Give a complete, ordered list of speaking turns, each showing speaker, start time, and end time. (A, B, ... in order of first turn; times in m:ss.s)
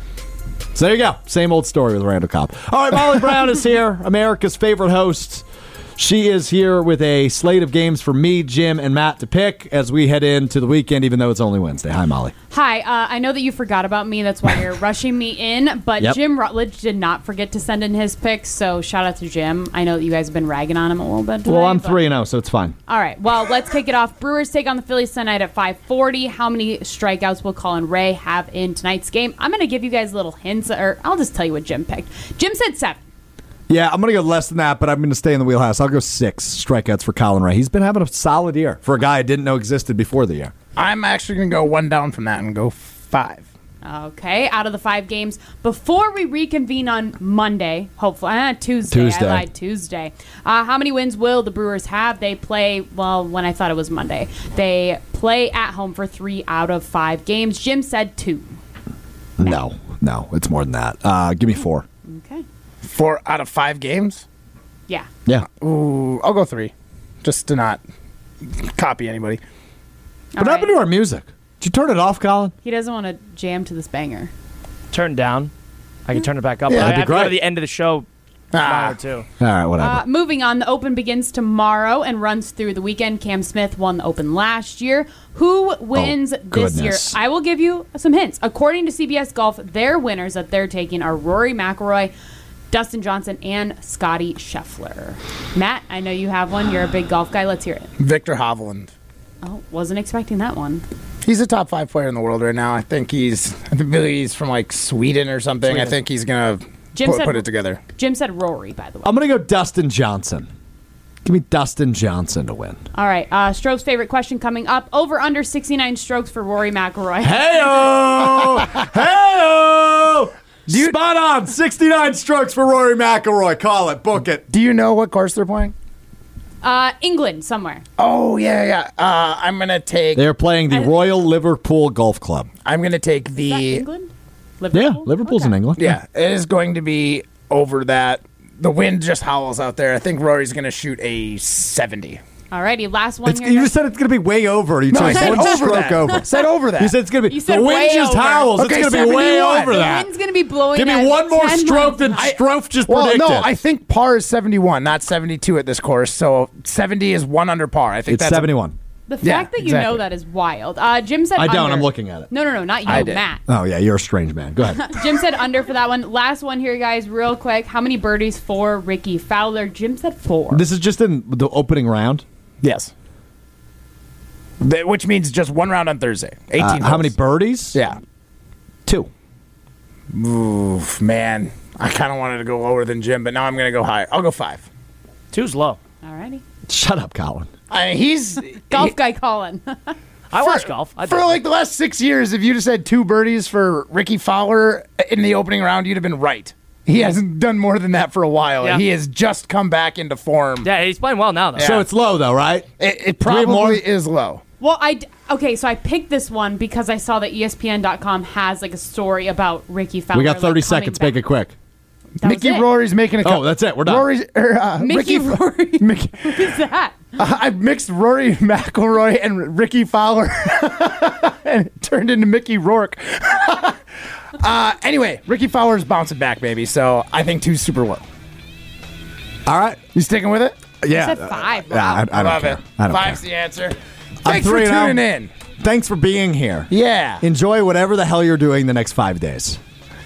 0:00.7-0:05.4 A
0:06.0-0:12.3 A
0:12.5-0:22.0 B
0:21.4-0:22.8 A
0:22.9-0:33.0 B
0:33.7-0:40.5 A
0:40.8-0:43.4 C
0:43.8-0:58.6 B
0:48.9-0:49.4 A
0:59.4-1:01.8 A
1:02.0-1:02.4 B
1:02.8-1:04.2 C
1:05.6-1:06.7 C
1:07.2-1:07.8 C
1:08.4-1:09.4 C
1:10.3-1:10.8 B
1:10.4-1:12.5 A
1:12.6-1:14.3 B
1:14.9-1:15.5 D
1:16.0-1:18.1 D
1:16.7-1:17.0 C
1:16.7-1:17.4 A
1:18.5-1:19.0 C
1:18.6-1:19.2 D
1:19.4-1:20.0 A
1:19.8-1:32.1 B
1:25.9-1:27.2 A
1:32.7-1:37.9 B
1:38.0-1:38.9 C
1:39.4-1:40.8 B
1:41.2-1:47.8 C
1:46.9-1:49.2 B
1:49.0-1:50.5 A
1:51.2-1:52.8 A
1:52.9-1:58.7 B
1:57.2-2:04.4 A
2:00.7-2:00.9 C
2:04.5-2:05.7 C
2:06.6-2:07.8 B
2:08.0-2:10.2 C
2:10.2-2:12.5 A
2:12.6-2:13.8 C
2:13.4-2:15.6 B
2:14.7-2:16.0 A
2:15.8-2:22.2 C
2:22.5-2:23.7 B
2:23.2-2:30.1 A
2:24.9-2:26.9 C
2:25.0-2:26.5 B
2:27.2-2:32.3 B
2:28.5-2:29.1 C
2:30.7-2:33.5 A
2:32.2-2:38.5 C
2:38.1-2:38.8 A
2:39.1-2:43.4 B
2:39.2-2:40.0 C
2:41.4-2:42.3 A
2:42.8-2:45.0 A
2:42.9-2:43.2 C
2:44.7-2:50.6 B
2:50.5-2:52.2 A
2:52.6-2:52.9 C
2:54.6-2:57.1 C
2:56.6-2:57.8 A
2:57.7-2:58.0 C
3:00.1-3:04.6 C
3:05.3-3:05.8 D
3:06.0-3:06.4 B
3:06.7-3:07.5 A
3:07.7-3:08.9 C
3:08.7-3:10.0 B
3:10.3-3:11.4 D
3:10.4-3:20.7 C
3:20.6-3:21.7 D
3:21.6-3:21.8 C
3:21.6-3:22.7 A
3:22.8-3:24.4 C
3:23.2-3:23.8 A
3:24.6-3:31.2 B
3:30.1-3:31.5 A
3:32.2-3:32.8 B
3:32.2-3:36.5 C
3:33.2-3:34.1 A
3:34.8-3:37.1 B
3:37.2-3:43.8 C
3:44.4-3:48.0 C
3:49.4-3:49.8 A
3:49.9-3:50.6 C
3:50.8-3:53.2 A
3:50.9-3:52.2 B
3:52.1-3:55.3 C
3:54.2-3:55.0 A
3:55.6-3:59.6 A
3:56.7-3:57.2 C